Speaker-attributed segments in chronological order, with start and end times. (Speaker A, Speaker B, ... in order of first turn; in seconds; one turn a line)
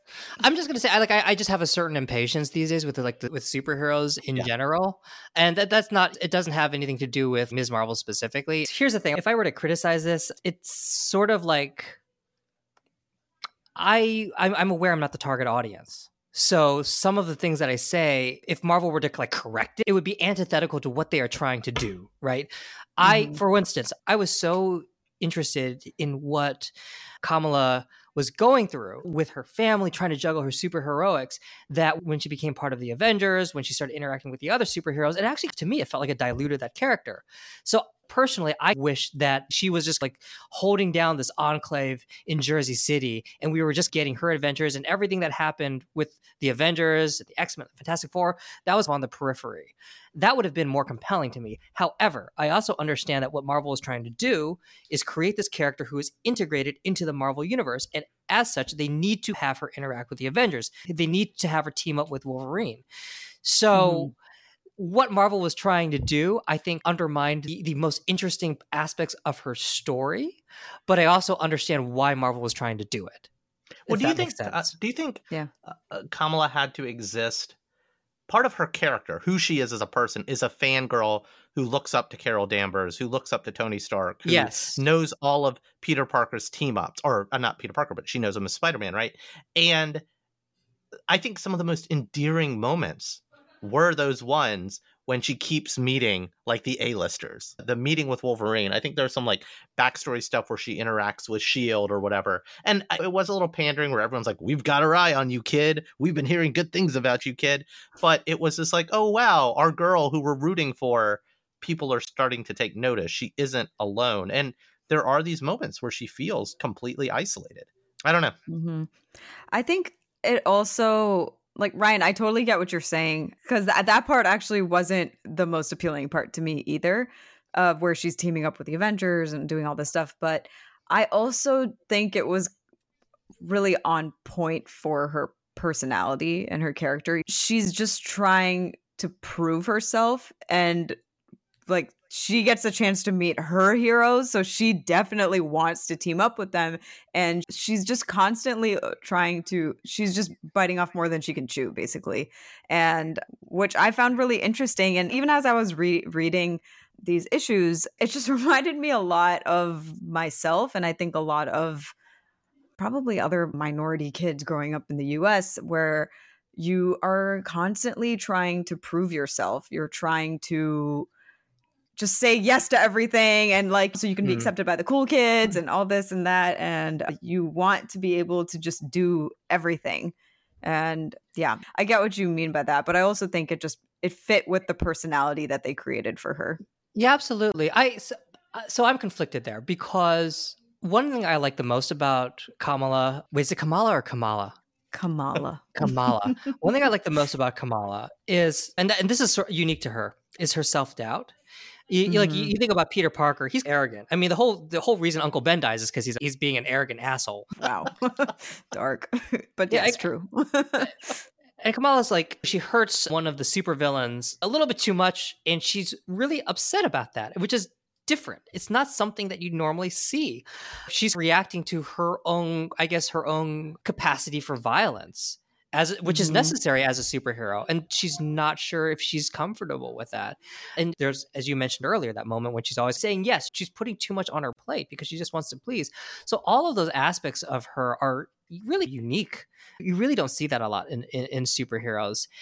Speaker A: 0.4-12.0
Speaker A: 13.8-62.8
Speaker B: 23.0-23.4
Speaker A: 63.4-64.1
Speaker B: 63.7-64.1
Speaker A: 64.8-73.3
Speaker A: 73.9-74.7
Speaker C: 73.9-77.6
Speaker C: 78.3-90.0
Speaker A: 84.3-84.8
Speaker C: 91.1-118.4
Speaker B: 118.5-118.9
Speaker B: 119.5-132.5
Speaker B: 133.4-141.0
Speaker B: 141.7-161.9
Speaker B: 162.8-171.1
Speaker B: 172.0-186.6
Speaker A: 186.9-194.6
Speaker B: 194.9-196.6
Speaker A: 195.8-201.3
Speaker A: 201.9-207.6
Speaker B: 202.1-202.5
Speaker B: 207.6-211.2
Speaker A: 209.7-210.0
Speaker A: 211.6-242.3
Speaker B: 226.1-226.6